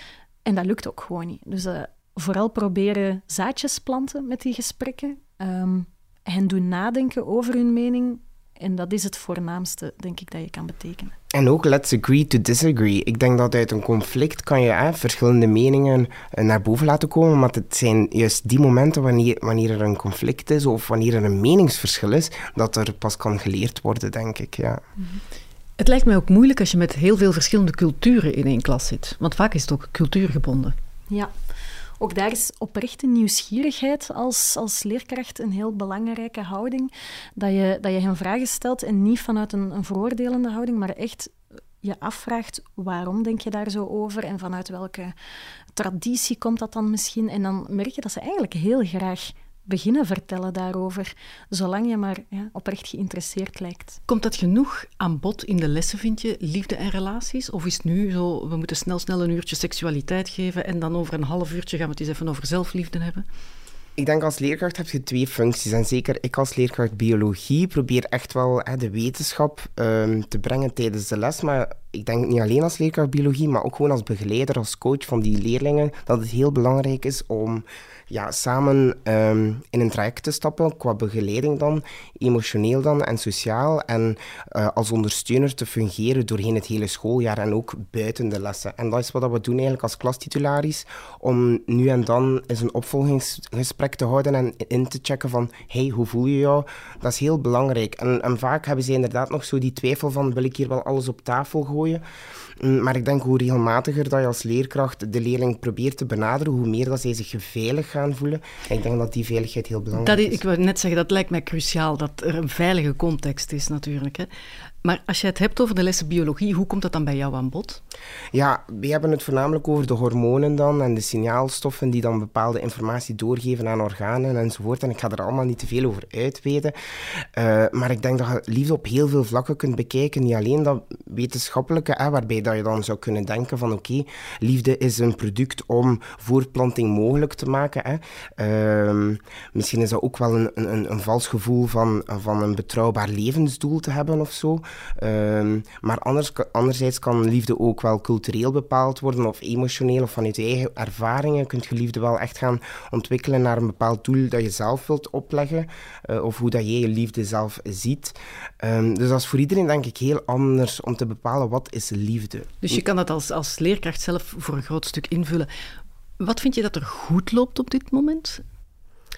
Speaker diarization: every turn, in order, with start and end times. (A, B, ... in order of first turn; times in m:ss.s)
0:00.4-0:11.2 A
0:11.3-0:24.8 B
0:25.8-0:30.7 C
0:32.0-0:45.1 A
0:45.7-0:54.0 A
0:54.1-1:03.2 C
1:04.0-1:42.0 B
1:42.6-1:50.4 B
1:49.9-1:54.3 C
1:54.8-1:57.8 C
1:58.3-2:42.8 B
2:42.6-2:45.5 C
2:46.2-2:48.4 C